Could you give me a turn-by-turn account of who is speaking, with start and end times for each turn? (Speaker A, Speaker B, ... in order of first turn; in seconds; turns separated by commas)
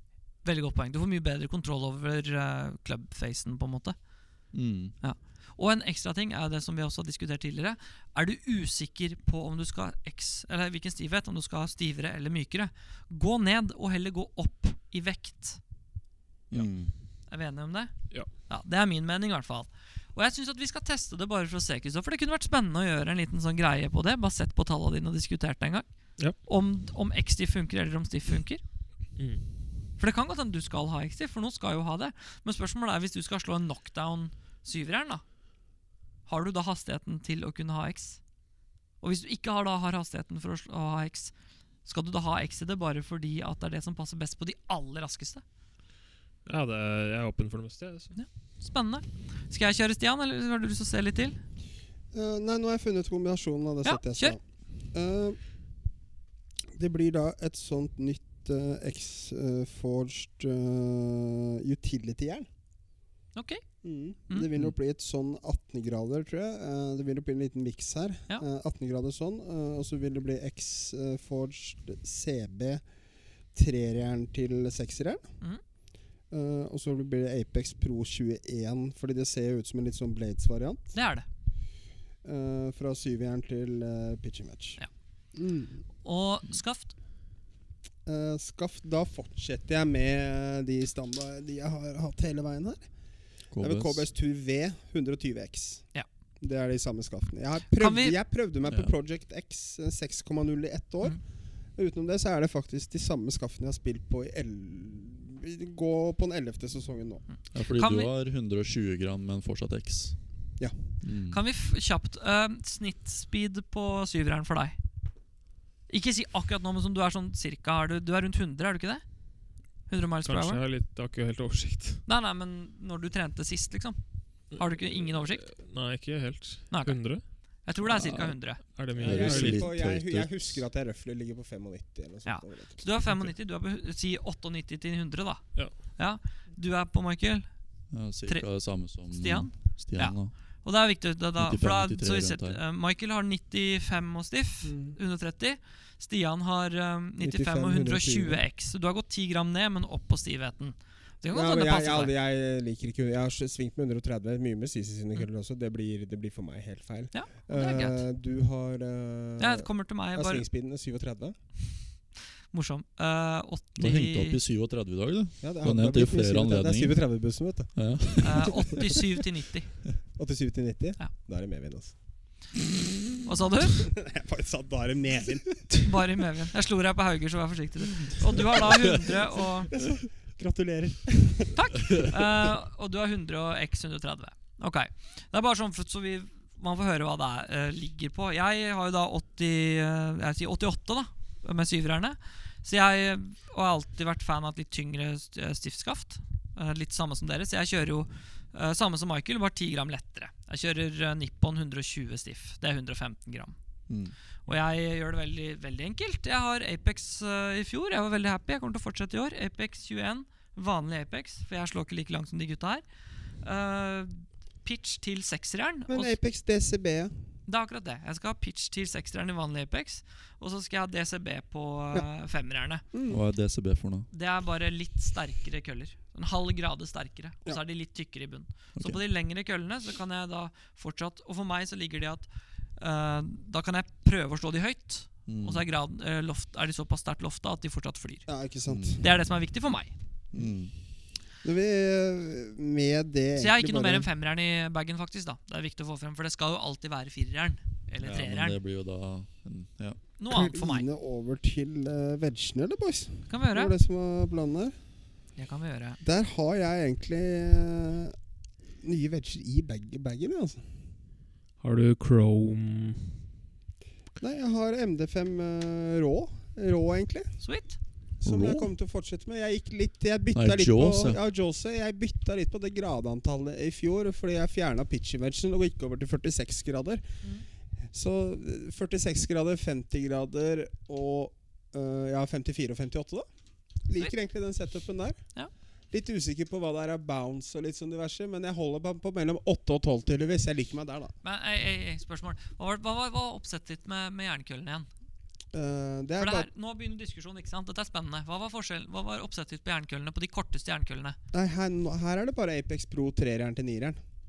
Speaker A: 0.4-4.0, Speaker B: 4.5-5.0, Speaker A: 5.0-15.6, Speaker B: 16.5-16.9, Speaker A: 17.3-28.6, Speaker C: 29.1-29.4, Speaker A: 30.0-35.5, Speaker A: 36.2-38.2, Speaker A: 39.0-45.4, Speaker C: 46.4-48.1, Speaker A: 48.1-51.4, Speaker D: 52.1-55.4, Speaker A: 53.8-54.4, Speaker D: 56.7-62.5, Speaker A: 63.3-63.6, Speaker D: 63.8-72.8, Speaker D: 73.5-75.2, Speaker D: 76.3-80.9, Speaker A: 80.9-81.2, Speaker D: 82.2-84.8, Speaker D: 85.3-85.8, Speaker A: 86.0-86.9, Speaker D: 88.0-92.9, Speaker B: 93.5-94.1, Speaker D: 93.6-95.9, Speaker D: 96.4-101.2, Speaker A: 97.8-98.2, Speaker B: 98.6-98.9, Speaker D: 101.8-107.2, Speaker A: 107.3-108.1, Speaker B: 107.5-110.3, Speaker B: 111.0-111.4, Speaker A: 111.3-114.8, Speaker A: 115.9-119.0, Speaker A: 119.9-120.6, Speaker C: 120.2-122.0, Speaker A: 122.0-125.5, Speaker C: 124.5-127.3, Speaker A: 126.7-128.6, Speaker B: 127.8-130.7, Speaker C: 128.7-129.7, Speaker D: 129.0-132.9, Speaker A: 132.2-137.5, Speaker B: 137.9-140.3, Speaker A: 138.2-152.1, Speaker B: 141.4-142.6, Speaker D: 144.6-145.0, Speaker D: 147.2-148.4, Speaker D: 151.3-161.4, Speaker A: 157.1-158.0, Speaker A: 159.4-160.4, Speaker A: 162.5-164.4, Speaker B: 163.8-167.0, Speaker D: 165.4-168.2, Speaker B: 167.7-168.6, Speaker A: 168.2-169.7, Speaker D: 170.1-171.9, Speaker A: 173.2-173.8, Speaker D: 173.8-175.9, Speaker A: 175.8-179.8, Speaker D: 179.7-181.6, Speaker A: 181.5-203.5, Speaker B: 203.9-204.1, Speaker A: 204.4-212.8, Speaker A: 213.4-216.2, Speaker D: 215.9-217.1, Speaker A: 217.4-222.8, Speaker D: 222.9-223.2, Speaker B: 223.1-224.1, Speaker A: 224.1-238.3, Speaker B: 228.7-229.0, Speaker B: 235.3-235.6, Speaker D: 238.3-239.0, Speaker B: 238.7-239.0, Speaker A: 239.0-239.9, Speaker B: 240.3-240.7, Speaker D: 241.4-244.1, Speaker A: 243.4-248.6, Speaker B: 248.0-250.0, Speaker A: 250.2-250.8, Speaker D: 250.3-254.7, Speaker A: 253.3-253.7, Speaker A: 255.3-256.0, Speaker D: 256.0-258.1, Speaker D: 258.8-260.6, Speaker C: 261.6-263.2, Speaker D: 264.2-267.4, Speaker A: 267.4-267.8, Speaker D: 268.2-277.0, Speaker B: 268.2-268.7, Speaker B: 270.3-271.2, Speaker D: 277.9-283.3, Speaker D: 283.8-285.2, Speaker D: 285.9-291.1, Speaker A: 291.2-294.9, Speaker D: 295.5-296.5, Speaker A: 296.2-301.2, Speaker D: 301.3-304.0